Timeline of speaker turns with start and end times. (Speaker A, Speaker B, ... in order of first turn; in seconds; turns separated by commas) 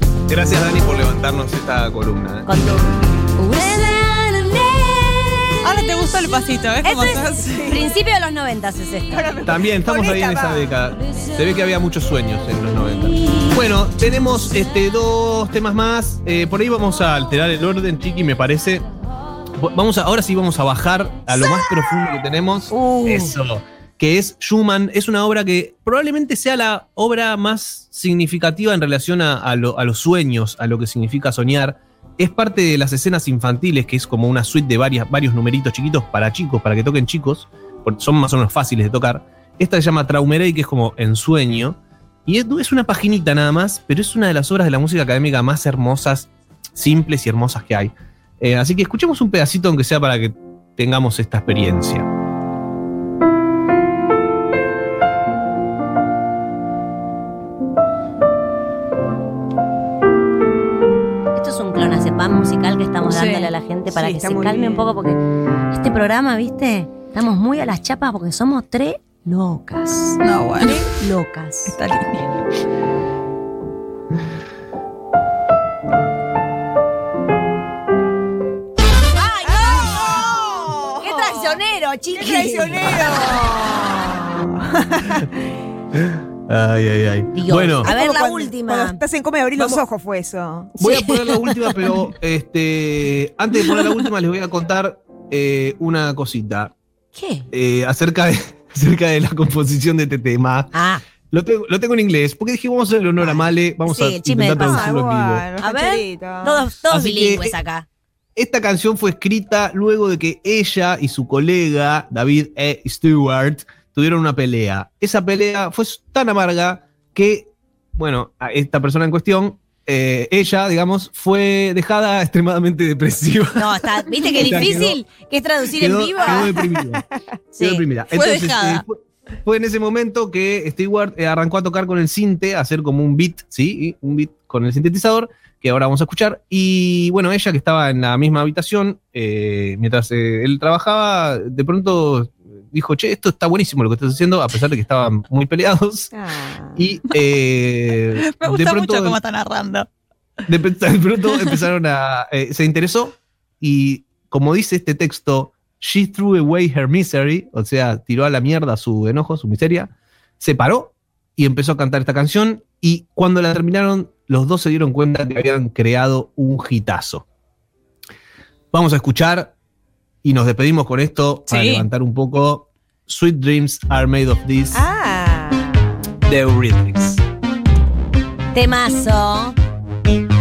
Speaker A: 0.3-2.5, Speaker B: 2.5-5.7, Speaker C: 5.6-7.7, Speaker B: 6.8-9.2, Speaker D: 7.4-8.0, Speaker D: 9.1-10.7, Speaker A: 9.4-18.9, Speaker A: 19.6-52.1, Speaker B: 21.4-21.6, Speaker B: 22.7-23.4, Speaker B: 61.4-65.2, Speaker C: 63.0-63.5, Speaker D: 63.9-64.9, Speaker B: 65.7-71.8, Speaker C: 70.2-70.9, Speaker C: 71.7-72.4, Speaker B: 79.1-80.3, Speaker D: 79.5-81.6, Speaker B: 81.0-83.3, Speaker D: 82.1-85.4, Speaker A: 85.9-87.9, Speaker B: 87.3-89.0, Speaker D: 87.8-90.8, Speaker A: 89.6-89.8, Speaker A: 90.8-96.7, Speaker B: 90.8-92.0, Speaker B: 97.2-97.5, Speaker A: 97.5-100.7, Speaker B: 100.7-101.0, Speaker A: 101.3-105.5, Speaker B: 103.2-104.9, Speaker D: 104.6-106.7, Speaker B: 105.6-107.9, Speaker A: 106.9-107.6, Speaker A: 108.4-125.0, Speaker B: 123.6-126.6, Speaker D: 124.4-124.8, Speaker A: 125.8-127.0, Speaker D: 126.2-127.0, Speaker B: 127.5-127.8, Speaker A: 127.6-146.1, Speaker C: 128.1-128.8, Speaker D: 146.1-146.8, Speaker A: 146.8-149.2, Speaker C: 148.2-149.9, Speaker A: 150.5-167.2, Speaker A: 168.7-169.5, Speaker A: 170.2-174.8, Speaker C: 171.5-171.9, Speaker D: 174.7-176.0, Speaker A: 176.2-177.2, Speaker B: 178.5-179.6